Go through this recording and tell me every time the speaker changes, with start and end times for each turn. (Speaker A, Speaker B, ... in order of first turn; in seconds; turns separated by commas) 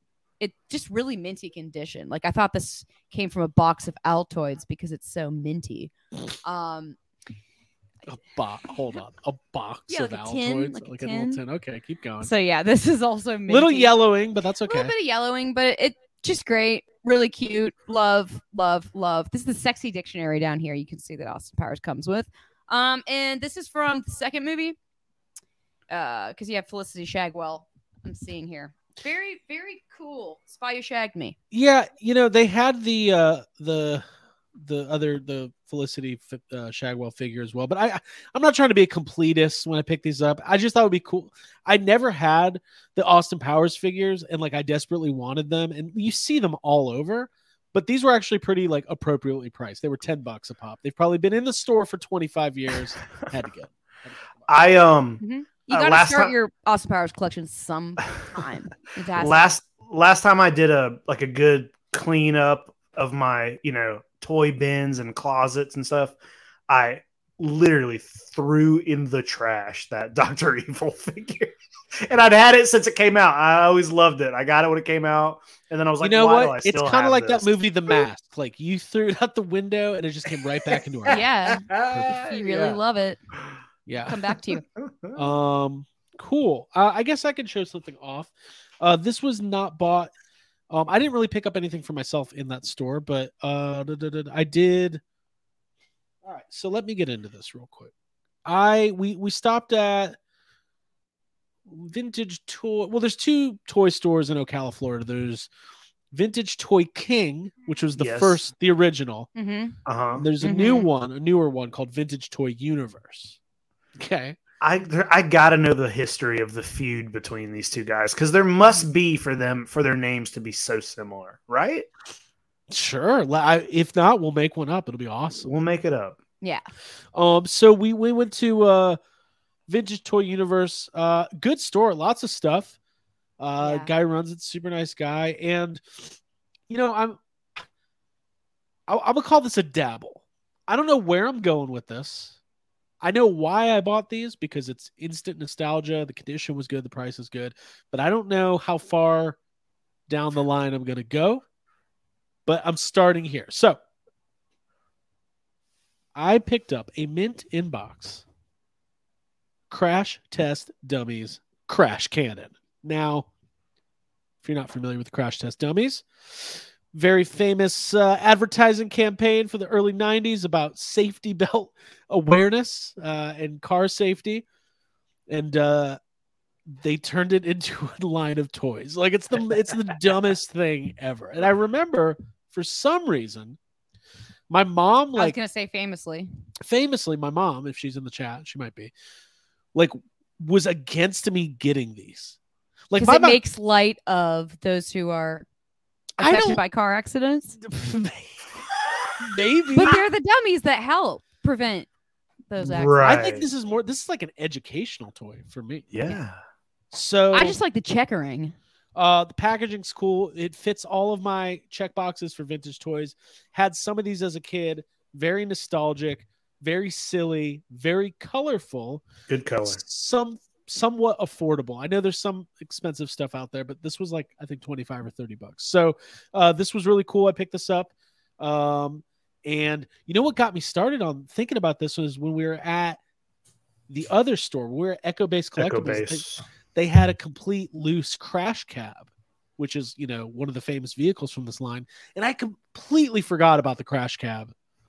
Speaker A: 0.4-5.9, Speaker A: 6.4-7.0, Speaker B: 8.1-12.3, Speaker A: 9.9-11.4, Speaker A: 12.2-14.0, Speaker B: 13.5-14.9, Speaker A: 14.7-24.8, Speaker A: 25.9-31.4, Speaker B: 31.5-34.0, Speaker B: 34.6-54.5, Speaker C: 54.5-56.3, Speaker A: 55.2-59.5, Speaker C: 59.1-66.2, Speaker C: 66.7-77.9, Speaker B: 76.0-82.8, Speaker A: 81.1-83.2, Speaker C: 81.2-82.6, Speaker B: 83.9-84.2, Speaker A: 84.1-84.6, Speaker B: 85.2-90.1, Speaker B: 90.7-95.0, Speaker B: 96.2-97.9, Speaker B: 98.5-100.2, Speaker B: 101.7-105.5, Speaker B: 106.1-109.3, Speaker C: 108.0-108.4, Speaker A: 109.3-109.8, Speaker C: 109.9-110.3, Speaker B: 110.2-113.4, Speaker A: 110.4-110.9, Speaker B: 114.0-114.4, Speaker C: 114.6-121.9, Speaker B: 122.7-125.5, Speaker C: 125.4-126.2, Speaker B: 127.1-129.0, Speaker B: 129.7-132.8, Speaker B: 133.4-136.2, Speaker A: 133.6-133.9, Speaker B: 136.7-137.6, Speaker B: 138.9-142.4, Speaker B: 143.0-149.4, Speaker B: 150.1-151.4, Speaker B: 152.5-153.8, Speaker B: 156.2-158.2, Speaker B: 159.7-163.3, Speaker B: 164.4-174.4, Speaker B: 175.3-176.0, Speaker B: 176.7-183.6, Speaker B: 184.5-185.4, Speaker A: 185.2-186.3, Speaker B: 186.7-188.9, Speaker B: 189.7-192.4, Speaker B: 192.9-193.4, Speaker A: 193.0-195.4, Speaker B: 196.2-196.6, Speaker A: 196.2-197.6, Speaker B: 197.6-198.5, Speaker B: 199.2-200.0, Speaker A: 199.7-201.9, Speaker A: 202.5-203.1, Speaker C: 202.6-203.5, Speaker B: 203.0-206.2, Speaker C: 205.9-206.4, Speaker B: 206.9-207.6, Speaker A: 207.3-208.6, Speaker B: 208.9-219.1, Speaker C: 219.3-219.8, Speaker B: 219.7-233.0, Speaker B: 233.9-244.5, Speaker C: 235.6-236.4